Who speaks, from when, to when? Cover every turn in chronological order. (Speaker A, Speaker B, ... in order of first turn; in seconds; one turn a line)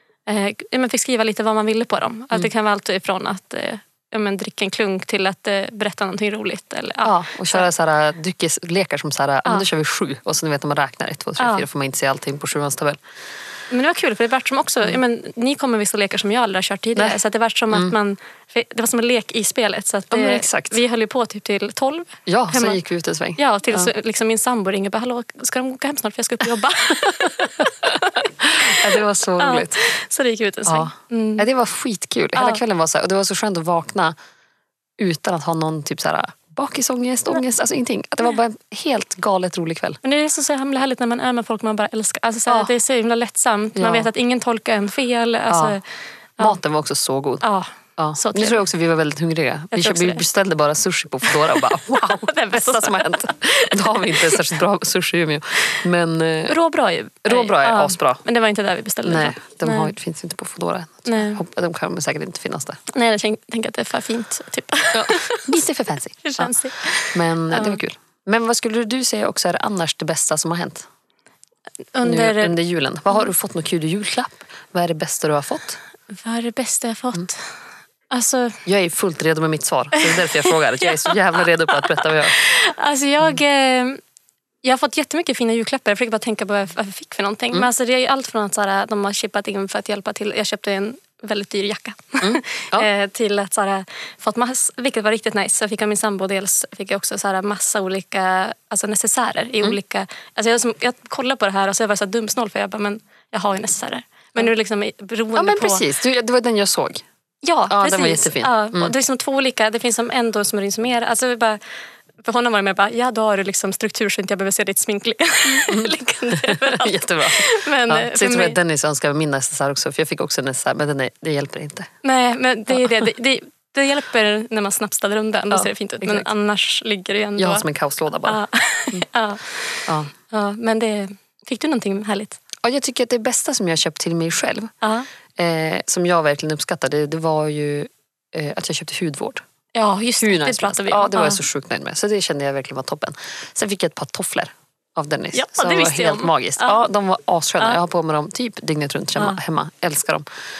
Speaker A: 0.3-7.7
Speaker B: 7.0-13.0
Speaker A: 11.4-11.7
Speaker A: 13.7-22.8
Speaker B: 20.1-20.8
Speaker B: 22.3-23.9
Speaker A: 23.4-31.5
Speaker B: 27.0-29.8
Speaker B: 30.6-34.1
Speaker A: 32.3-32.6
Speaker B: 35.0-40.0
Speaker A: 40.0-45.8
Speaker B: 43.8-44.1
Speaker B: 45.5-45.8
Speaker B: 46.4-47.4
Speaker A: 47.4-48.6
Speaker B: 48.0-56.6
Speaker A: 49.7-50.2
Speaker A: 51.3-54.4
Speaker A: 56.5-59.9
Speaker B: 57.2-58.2
Speaker B: 59.0-62.8
Speaker A: 61.0-61.4
Speaker A: 62.9-65.6
Speaker B: 64.9-66.5
Speaker A: 66.2-67.8
Speaker B: 67.1-70.9
Speaker A: 71.9-72.5
Speaker B: 72.0-75.8
Speaker A: 76.1-77.5
Speaker A: 78.1-78.6
Speaker B: 78.7-82.3
Speaker A: 80.8-81.1
Speaker A: 81.8-84.0
Speaker A: 84.6-105.8
Speaker B: 92.2-92.9
Speaker B: 105.3-107.0
Speaker A: 107.4-111.6
Speaker B: 107.7-108.9
Speaker A: 112.2-118.6
Speaker B: 115.5-121.9
Speaker A: 122.0-127.6
Speaker B: 125.5-126.3
Speaker B: 127.4-129.1
Speaker A: 128.2-132.4
Speaker B: 129.9-130.1
Speaker B: 132.6-134.7
Speaker A: 134.8-135.1
Speaker B: 135.4-139.4
Speaker A: 139.7-141.4
Speaker B: 140.2-150.2
Speaker A: 145.3-146.8